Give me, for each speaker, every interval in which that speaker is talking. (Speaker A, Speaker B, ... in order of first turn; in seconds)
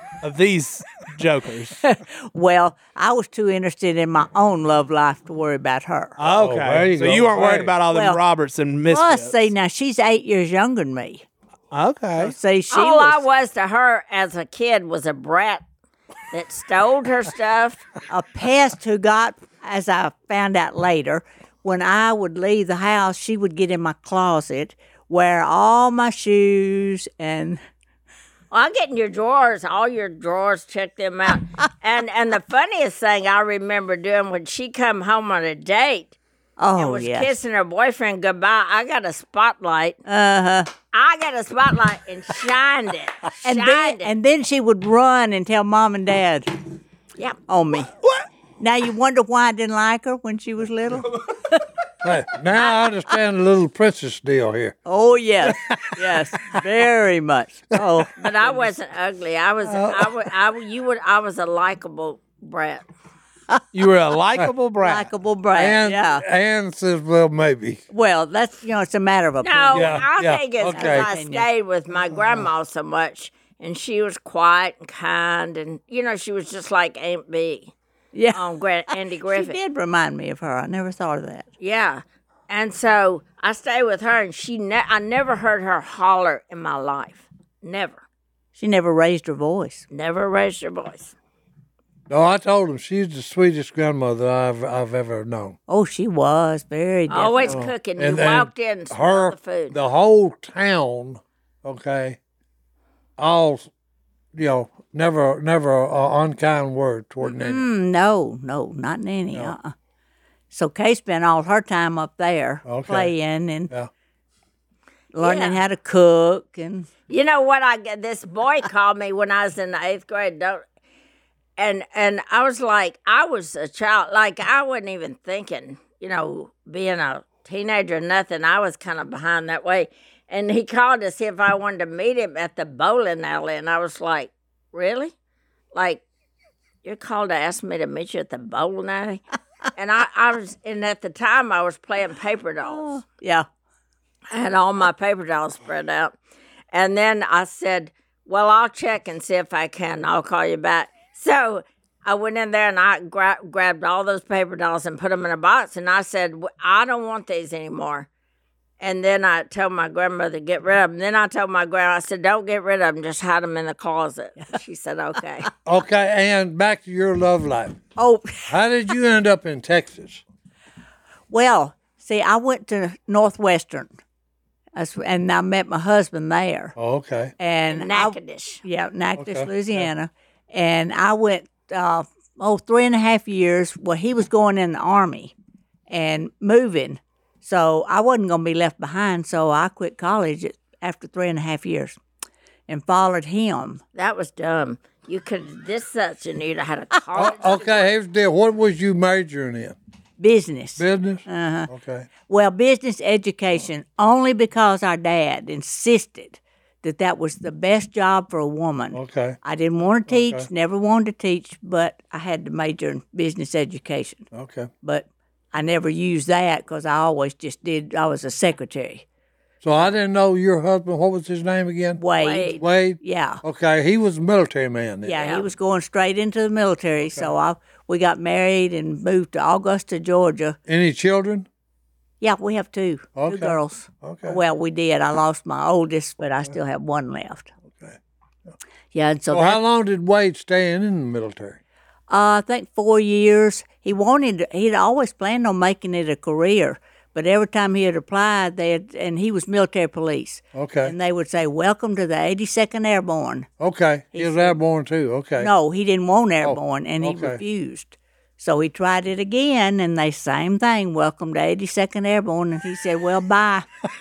Speaker A: 0.2-1.8, 6.2-9.5, 11.7-12.3, 63.7-65.1
Speaker B: 1.8-6.2, 7.8-8.2, 8.9-11.2, 12.2-13.2, 18.1-27.6, 36.6-37.3, 40.1-40.7, 43.4-46.5, 47.5-47.9, 48.6-51.6, 54.9-58.1, 64.8-66.2, 67.9-70.0, 70.7-71.5, 78.1-81.5, 88.5-89.8, 95.7-97.6, 107.2-109.7, 110.5-113.7, 115.1-116.9, 142.6-143.4, 168.0-168.5, 171.3-173.9, 174.7-176.7, 177.4-185.3, 185.9-192.0, 192.7-193.8, 200.2-201.7, 202.2-214.2, 214.8-219.0, 222.0-223.4, 225.0-230.6, 232.2-237.5, 238.9-239.6, 242.1-253.5, 254.1-254.6, 255.4-263.6
Speaker C: 6.2-7.8, 52.0-54.8, 55.4-56.6, 57.7-58.1, 59.6-60.1, 65.5-67.8, 69.7-71.1, 92.1-95.6, 97.5-102.2, 103.2-103.7, 104.3-107.7, 112.7-113.1, 165.6-167.8, 168.5-170.2, 176.8-177.3, 179.2-179.9, 197.2-199.7, 200.8-202.1, 208.9-209.4, 210.1-210.5, 214.3-214.7, 219.6-222.0, 222.6-225.2, 230.7-231.5, 233.2-234.4, 237.7-238.0, 239.3-241.6, 250.5-250.9, 253.6-255.5, 256.4-257.4
Speaker D: 12.7-15.6, 16.3-17.8, 28.5-36.1, 36.8-40.0, 40.9-44.1, 58.1-62.8, 69.4-77.7, 78.3-79.6, 81.6-88.0, 89.9-91.1, 97.1-99.8, 115.2-115.6, 117.1-120.6, 121.6-135.1, 135.7-136.0, 136.8-139.2, 139.7-142.9, 144.3-146.2, 146.7-158.1, 158.8-165.5, 177.7-178.6, 193.9-197.9, 222.2-222.6, 225.1-225.4